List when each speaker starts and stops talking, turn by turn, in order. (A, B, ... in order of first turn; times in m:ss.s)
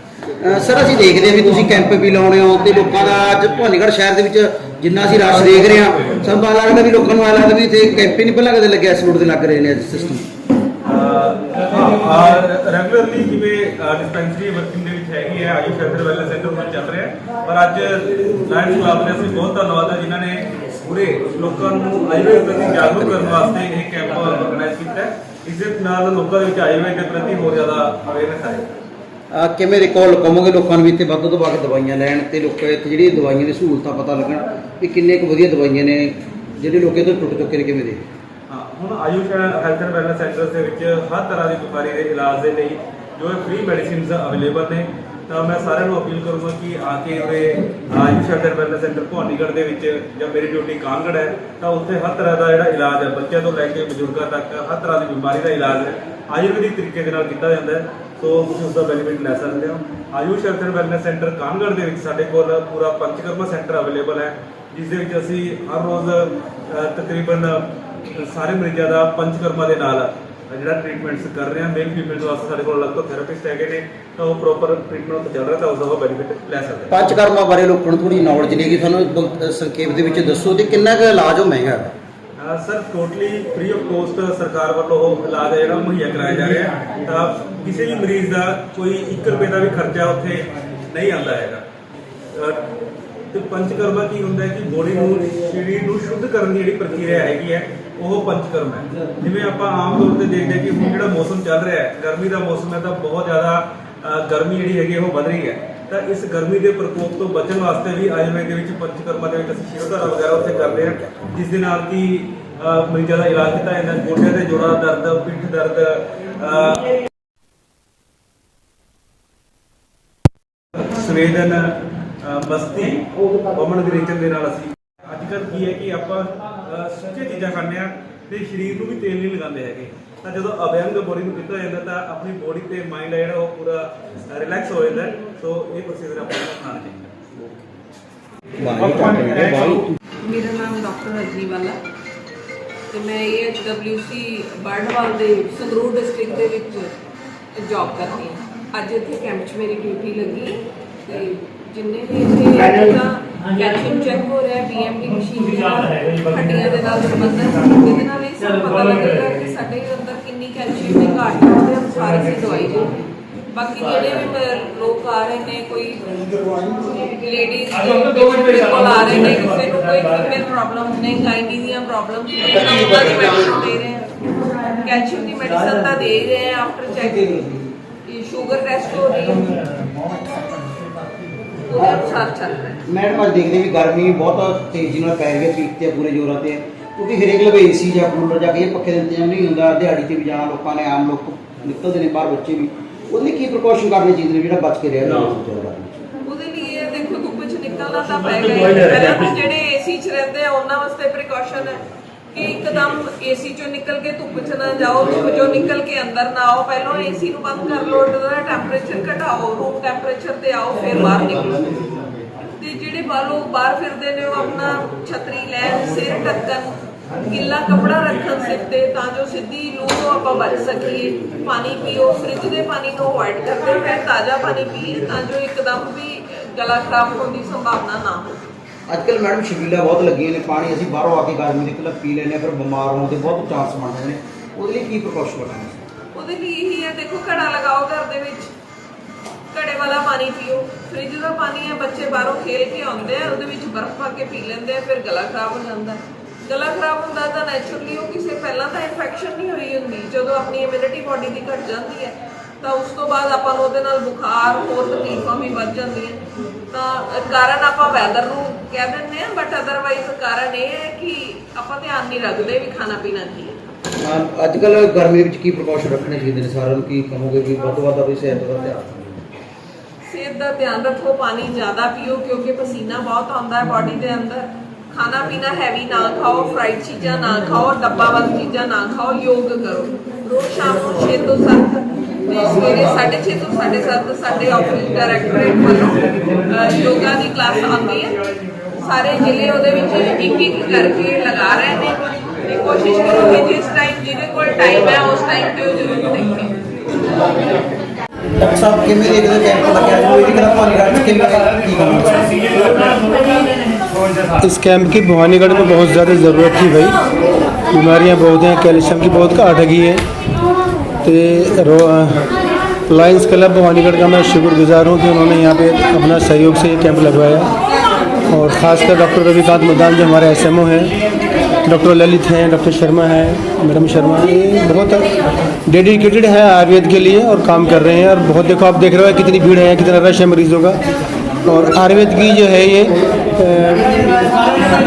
0:00.4-0:10.2 A
0:10.9-0:28.7 B
0:22.7-0:23.4 A
0:29.3-0:38.0 A
0:38.5-1:07.6 B
1:08.1-1:17.0 B
1:16.9-1:21.9 A
1:22.4-1:31.6 B
1:32.3-1:32.6 B
1:33.3-1:56.9 B
2:00.8-2:17.1 B
2:18.6-2:19.9 A
2:18.7-2:19.8 B
2:20.2-2:21.8 C
2:22.9-2:26.9 C
2:27.6-2:43.0 C
2:43.5-2:54.1 C
2:54.6-3:00.2 C
3:01.7-3:02.8 C
3:02.8-3:16.0 A
3:16.2-3:21.8 C
3:22.3-3:31.9 C
3:32.6-3:48.4 C
3:48.9-3:55.8 A
3:56.2-3:58.5 C
3:59.5-4:23.6 C
4:24.0-4:29.3 A
4:30.1-4:48.2 C
4:48.8-4:56.6 C
4:58.4-5:02.9 A
5:04.4-5:07.0 D
5:07.7-5:10.0 D
5:11.0-5:12.3 D
5:12.9-5:17.5 D
5:18.3-5:20.9 D
5:21.6-5:25.1 D
5:25.7-5:30.8 D
5:31.5-5:34.3 D